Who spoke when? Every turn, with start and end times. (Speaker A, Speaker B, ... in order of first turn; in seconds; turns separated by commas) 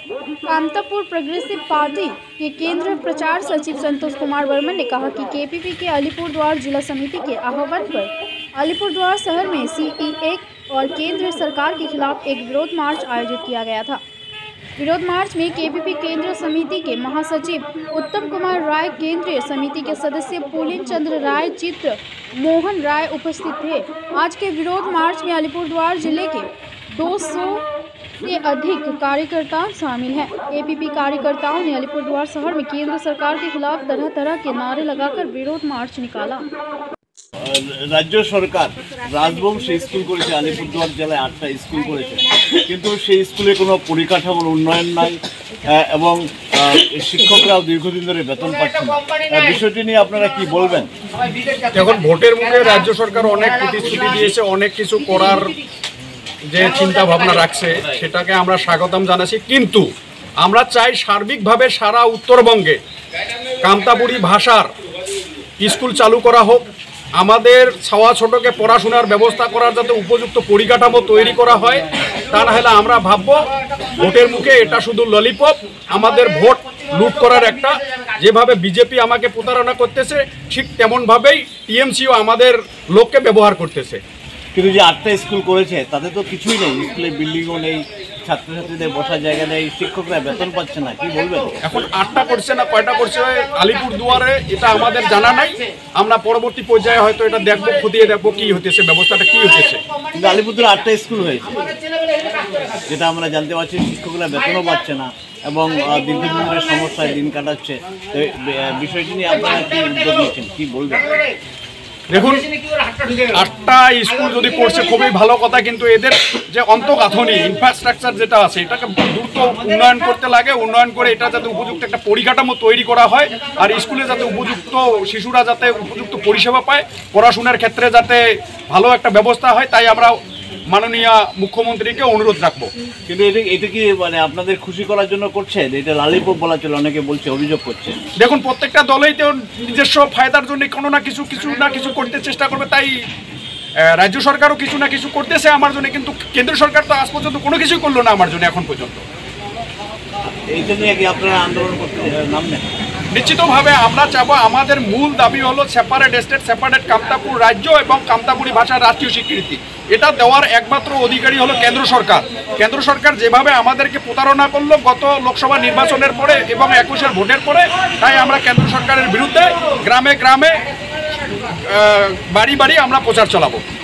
Speaker A: 0.5-14.0, Speaker A: 14.8-27.6, Speaker A: 28.2-36.5, Speaker B: 37.4-50.9, Speaker C: 51.7-55.5, Speaker C: 56.5-59.9, Speaker C: 60.4-62.8, Speaker C: 63.6-64.7, Speaker C: 65.6-66.6, Speaker C: 67.2-84.0, Speaker B: 84.5-91.5, Speaker C: 91.6-99.8, Speaker B: 100.1-101.8, Speaker B: 102.9-111.2, Speaker C: 112.1-112.5, Speaker C: 113.3-130.2, Speaker C: 130.7-132.7, Speaker B: 133.1-138.0, Speaker C: 138.2-142.9, Speaker C: 143.9-149.0, Speaker B: 150.5-152.7, Speaker C: 153.1-170.6, Speaker C: 171.7-173.6